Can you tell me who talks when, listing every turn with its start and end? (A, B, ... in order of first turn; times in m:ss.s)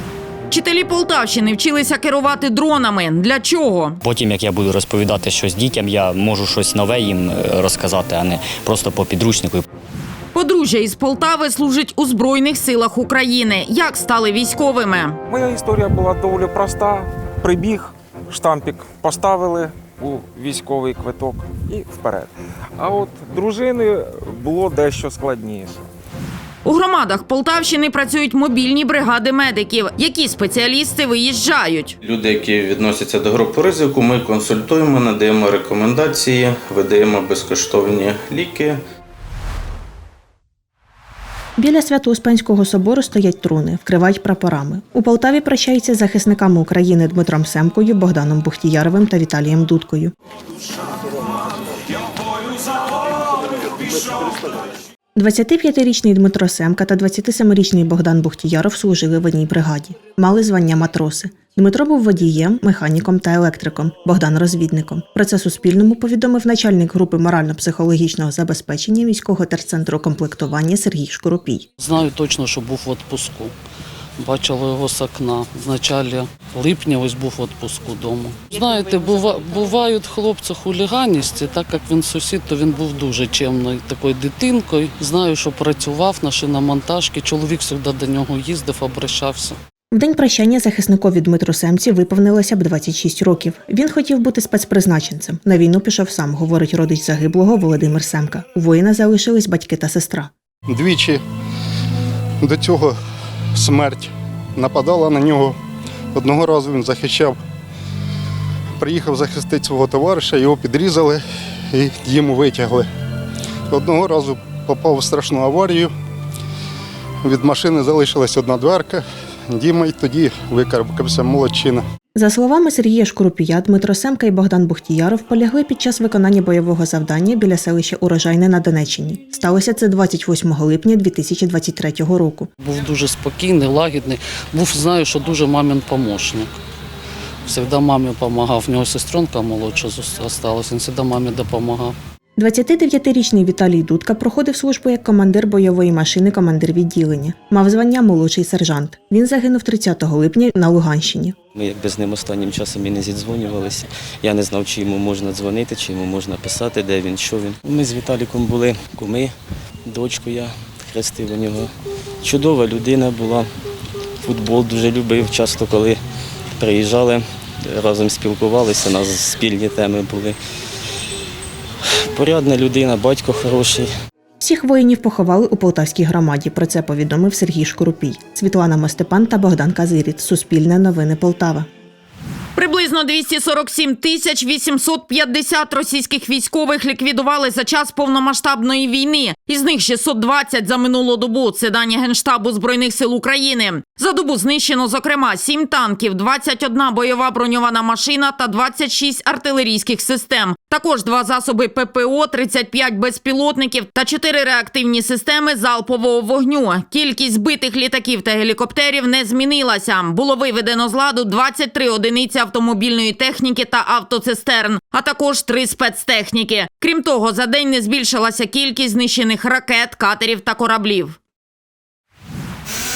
0:00.5-0:04.0 A
0:04.0-0:09.6 B
0:10.3-0:15.2 A
0:15.3-0:25.8 C
0:26.6-0:31.9 A
0:32.0-0:38.8 D
0:41.6-0:50.1 E
0:55.2-1:11.7 E
1:11.8-1:13.5 F
1:14.2-1:29.6 F
1:29.9-1:40.3 E
1:40.7-1:41.2 G
1:42.4-1:42.9 G
1:43.6-1:45.5 G
1:46.1-1:47.4 G
1:48.8-1:51.2 G
1:51.7-1:52.8 G
1:53.7-1:55.9 G
1:57.2-2:01.8 G
2:02.1-2:12.5 E
2:12.6-2:16.6 F
2:17.4-2:22.0 F
2:22.4-2:31.3 E
2:31.6-2:39.3 H
2:39.8-2:41.7 H
2:42.2-2:43.5 H
2:44.2-2:46.0 H
2:46.6-2:50.4 H
2:52.1-2:53.9 H
2:54.4-3:01.7 E
3:02.6-3:41.2 A